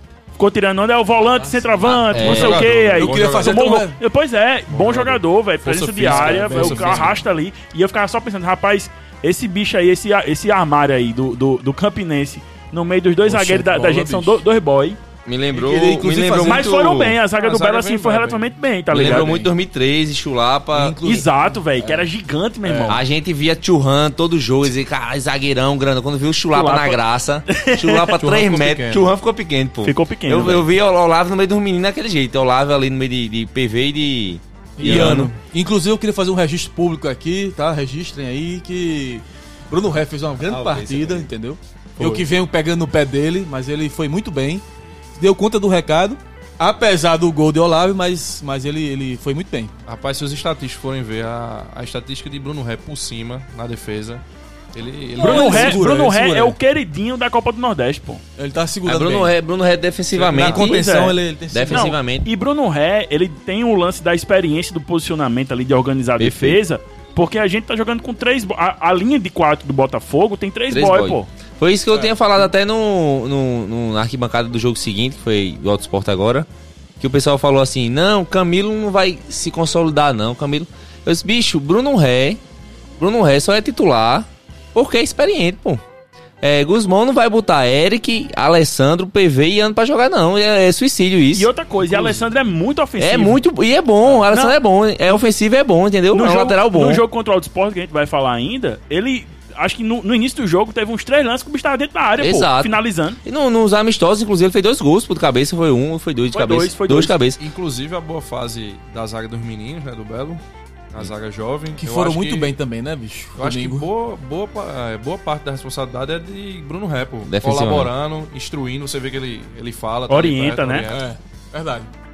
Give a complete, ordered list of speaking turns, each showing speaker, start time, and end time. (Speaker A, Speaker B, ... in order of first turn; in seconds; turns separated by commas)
Speaker A: 0.3-15.0, Speaker B: 1.2-4.0, Speaker C: 1.8-2.7, Speaker D: 2.1-3.6, Speaker D: 4.7-7.2, Speaker B: 6.0-7.2, Speaker B: 13.2-14.4, Speaker C: 15.2-17.2, Speaker B: 15.5-16.8, Speaker A: 16.4-19.4, Speaker D: 17.2-18.5, Speaker C: 18.9-21.0, Speaker B: 18.9-19.5, Speaker B: 20.7-21.6, Speaker A: 21.0-23.0, Speaker C: 21.8-22.1, Speaker B: 22.6-23.0, Speaker C: 22.9-35.3, Speaker A: 26.5-28.2, Speaker D: 28.2-29.1, Speaker A: 29.8-30.7, Speaker B: 34.8-44.6, Speaker D: 34.9-35.2, Speaker C: 40.5-41.3, Speaker D: 42.0-42.3, Speaker B: 45.1-49.7, Speaker D: 49.9-55.8, Speaker B: 55.1-56.6, Speaker A: 55.2-58.2, Speaker B: 58.4-59.3, Speaker C: 58.9-60.9, Speaker B: 60.1-62.0, Speaker A: 60.6-61.2, Speaker C: 61.5-62.3, Speaker A: 61.7-71.3, Speaker C: 66.2-66.6, Speaker C: 70.7-76.5, Speaker B: 71.9-72.2, Speaker C: 77.0-82.4, Speaker C: 83.0-85.8, Speaker C: 86.4-91.5, Speaker A: 91.3-93.4, Speaker B: 91.9-92.3, Speaker C: 93.0-97.0, Speaker A: 94.3-94.6, Speaker A: 96.1-103.2, Speaker C: 102.2-107.4, Speaker A: 106.3-107.2, Speaker D: 107.4-112.5, Speaker B: 111.8-113.9, Speaker D: 113.4-121.0, Speaker C: 117.2-117.9, Speaker A: 120.1-120.9, Speaker B: 120.9-121.9